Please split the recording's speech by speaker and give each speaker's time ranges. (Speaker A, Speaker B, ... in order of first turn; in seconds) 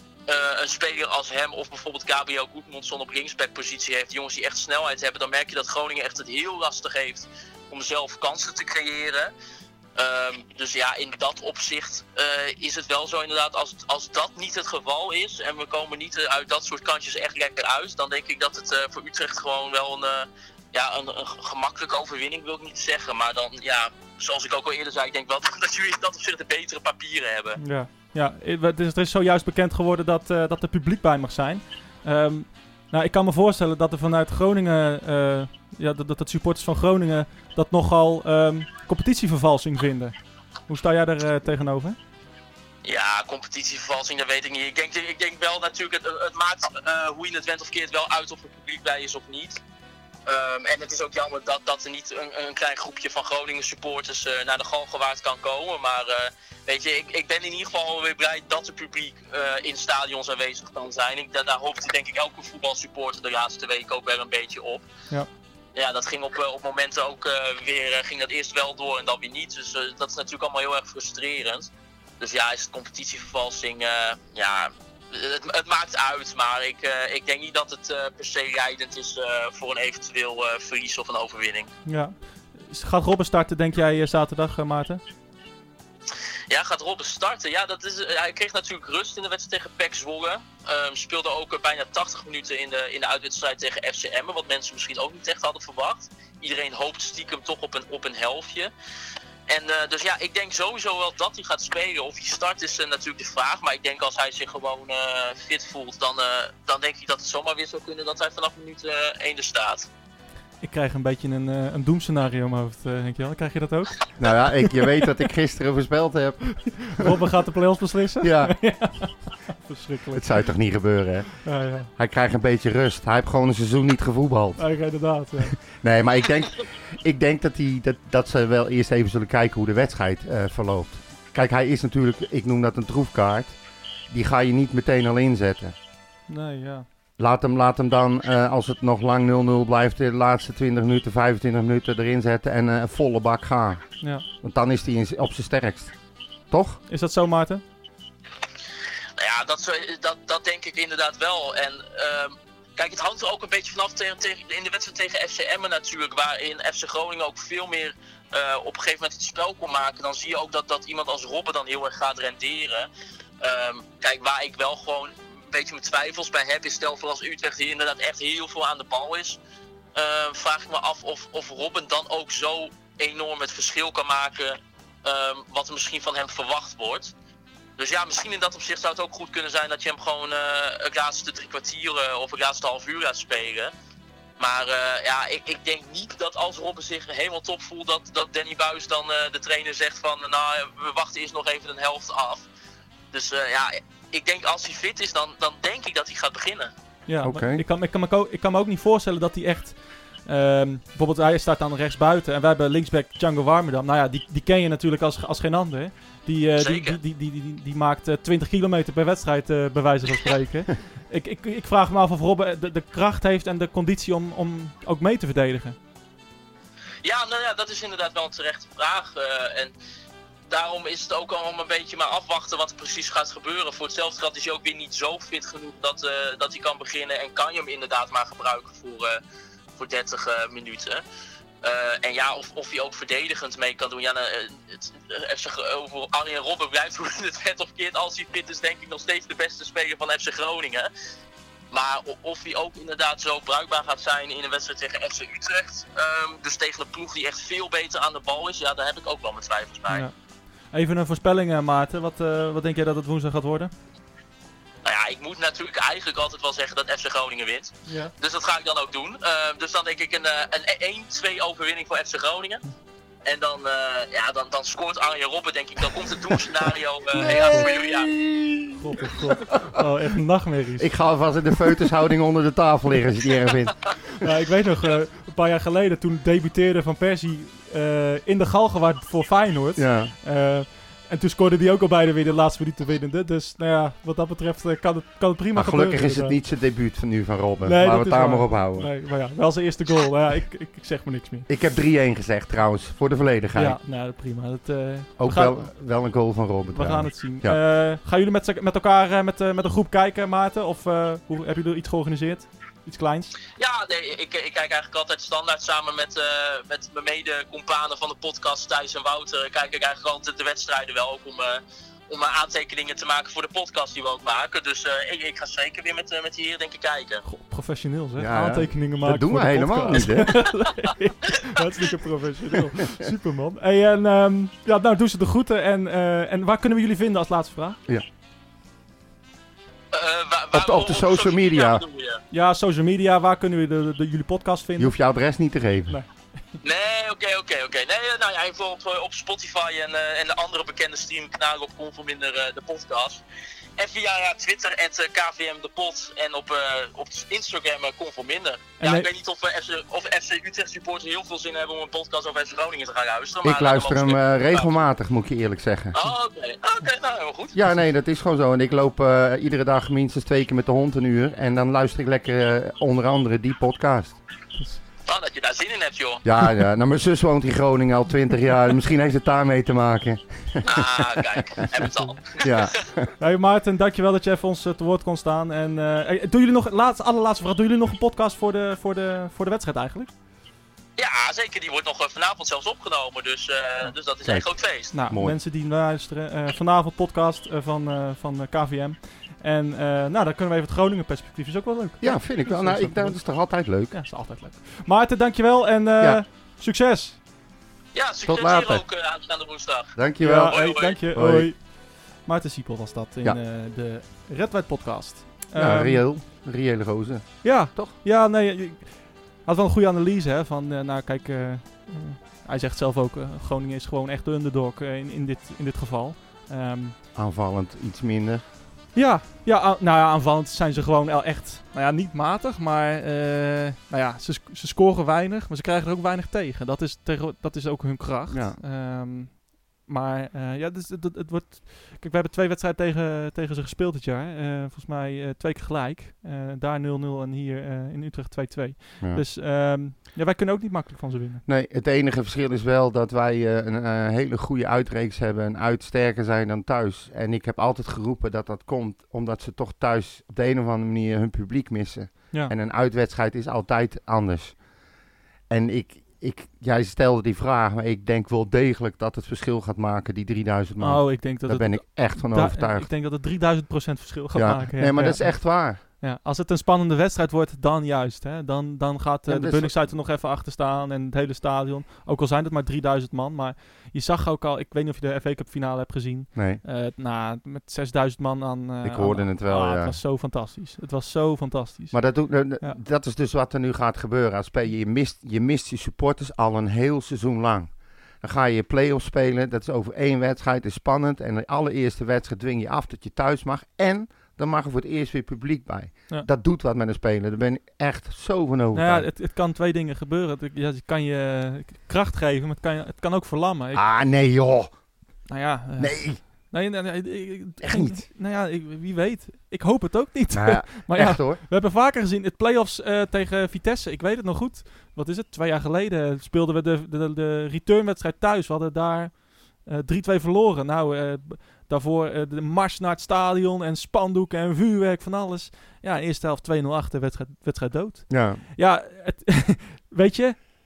Speaker A: 0.3-9.3, 10.0-27.6, 42.8-49.6, 50.3-64.9, 65.8-81.7, 86.5-98.7, 99.5-109.9, 149.2-162.9, 163.4-169.4, 169.9-177.1, 177.8-183.7, 184.4-192.5, 193.1-196.7, 206.6-207.0, 217.0-219.7, 220.5-229.2, 229.8-231.0, 231.6-240.9, 241.7-250.1, 254.8-262.6, 263.2-268.1, 303.6-317.2, 329.9-332.2, 336.6-343.2, 343.8-354.7, 355.9-357.6, 365.1-366.2, 370.6-372.7, 381.0-384.9, 397.9-399.9, 400.5-401.0
Speaker B: 27.6-40.1, 40.7-42.0, 81.9-85.0, 110.6-114.0, 114.5-115.1, 116.7-120.3, 121.4-121.9, 124.6-125.6, 136.3-136.9, 144.0-144.3, 146.9-147.6, 197.1-215.8, 249.9-250.2, 250.7-253.7, 257.9-258.1, 267.4-267.8, 268.8-270.9, 274.2-286.4, 287.6-291.5, 293.6-295.7, 296.7-303.3, 317.2-327.8, 332.3-334.9, 348.8-349.1, 373.2-380.1, 384.9-393.2, 393.9-397.2, 400.2-406.1, 407.4-417.0, 418.9-441.4, 460.8-482.8, 498.7-503.8, 505.3-530.4
Speaker C: 114.2-117.2, 118.2-118.6, 120.1-121.3, 122.0-124.7, 125.7-133.6, 134.1-135.8, 137.2-143.8, 144.4-145.9, 146.5-146.8, 197.2-197.6, 267.1-269.6, 270.8-274.1, 279.8-280.1, 285.6-288.9, 291.5-293.8, 295.2-297.6, 318.2-320.5, 330.5-331.8, 334.8-336.0, 353.4-356.0, 357.5-364.2, 366.2-371.6, 372.4-373.1, 385.1-385.4, 392.0-393.9, 398.2-398.8, 400.0-400.6, 401.1-401.5, 405.6-408.0, 417.1-418.4, 428.3-428.6, 441.5-454.6, 455.5-462.9, 464.3-465.8, 469.3-469.7, 476.4-476.6, 478.8-480.0, 481.9-499.1, 503.7-504.7, 505.8-506.2, 507.6-508.1, 510.3-511.4, 528.1-528.4